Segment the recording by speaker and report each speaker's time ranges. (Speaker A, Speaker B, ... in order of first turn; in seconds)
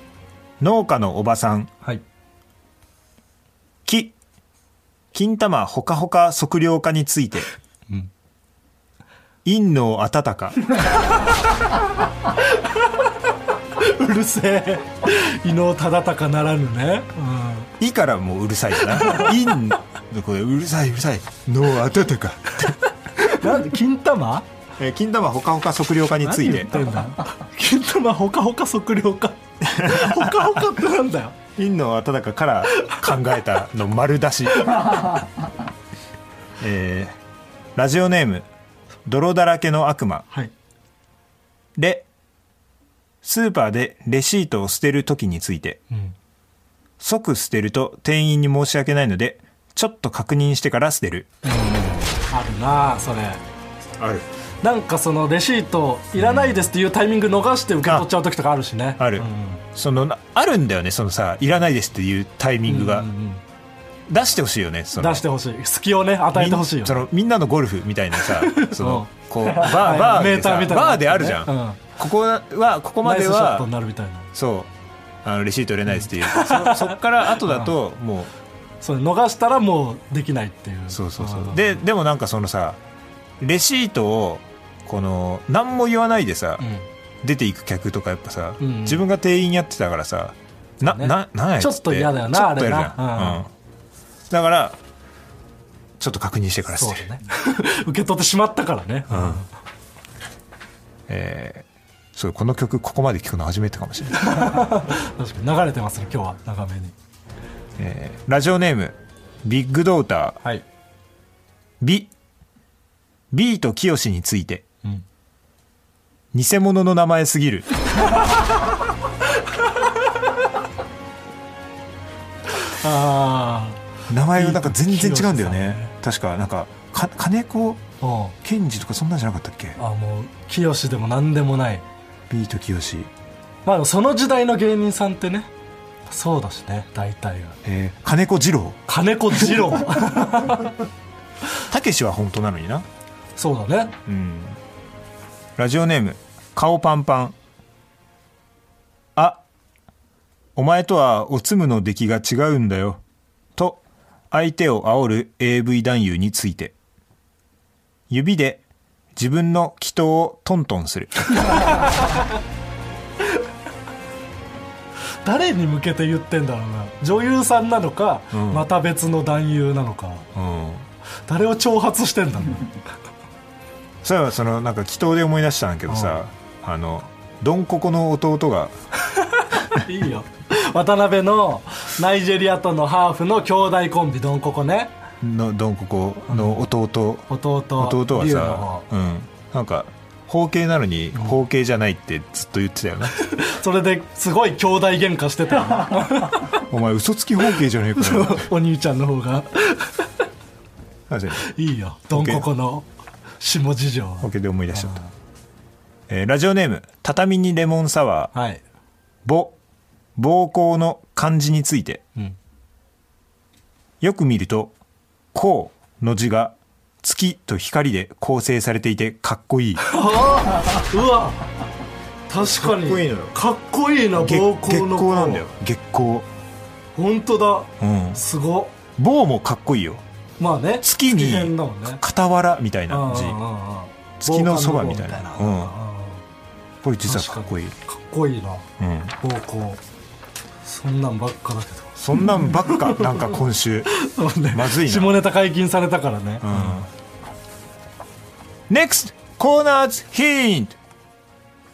Speaker A: 0.6-1.7, 3.9-4.2, 5.1-7.5, 9.4-10.8, 17.8-23.6, 24.8-26.9, 29.7-30.5, 31.6-35.2, 36.6-37.2, 37.8-38.5, 39.1-40.3, 41.8-42.1, 43.2-45.8, 47.0-51.3, 54.0-54.3, 56.2-56.7, 57.8-58.1, 59.0-63.1, 64.1-65.2, 66.3-73.7, 74.3-74.7, 75.2-78.3, 80.9-82.8, 83.4-86.7, 87.2-93.5, 94.3-94.8, 96.0-97.0, 99.1-99.4, 101.1-104.5, 107.8-110.4, 111.8-112.1, 113.3-114.7, 116.3-117.7, 124.1-127.8, 128.4-129.8, 132.3-133.1, 137.6-138.8, 141.7-142.9, 144.1-144.6, 145.6-147.4, 149.2-149.4, 150.6-153.0, 153.6-156.7, 158.1-158.6, 159.2-161.8, 168.3-168.7, 170.3-170.9, 174.0-178.7, 185.2-193.2, 196.7-198.5, 201.1-201.5, 202.1-202.5, 204.2-205.0, 206.1-208.3, 209.2-209.6, 210.2-212.0, 214.0-214.7, 215.3-219.9, 222.4-223.3, 224.2-226.3, 227.8-228.2, 229.0-230.0, 230.8-233.4, 234.2-235.7, 236.8-237.8, 238.8-239.1, 242.0-243.9, 244.5-245.2, 246.4-246.9, 248.7-250.8
Speaker B: 12.6-12.8, 13.8-17.7, 19.0-19.3, 23.2-24.5, 26.2-31.4, 51.4-53.4, 54.6-59.6, 62.7-63.4, 65.0-67.1, 68.2-71.8, 73.0-74.3, 75.9-77.7, 78.8-81.8, 86.6-86.9, 88.6-89.0, 90.8-93.5, 96.7-99.5, 104.2-107.0, 122.6-123.8, 124.3-125.9, 128.0-128.3, 129.8-131.8, 133.7-135.5, 136.1-137.6, 138.9-140.7, 143.4-144.0, 161.5-162.1, 165.2-170.3, 171.3-172.8, 179.1-184.9, 186.3-186.6, 187.3-188.8, 193.2-196.6, 198.0-200.1, 201.4-202.9, 203.4-205.1, 208.3-208.6, 219.9-221.4, 222.3-225.4, 226.9-228.8, 230.4-232.0, 232.9-236.2, 237.1-238.7, 239.2-239.8, 240.6-243.3, 243.9-246.9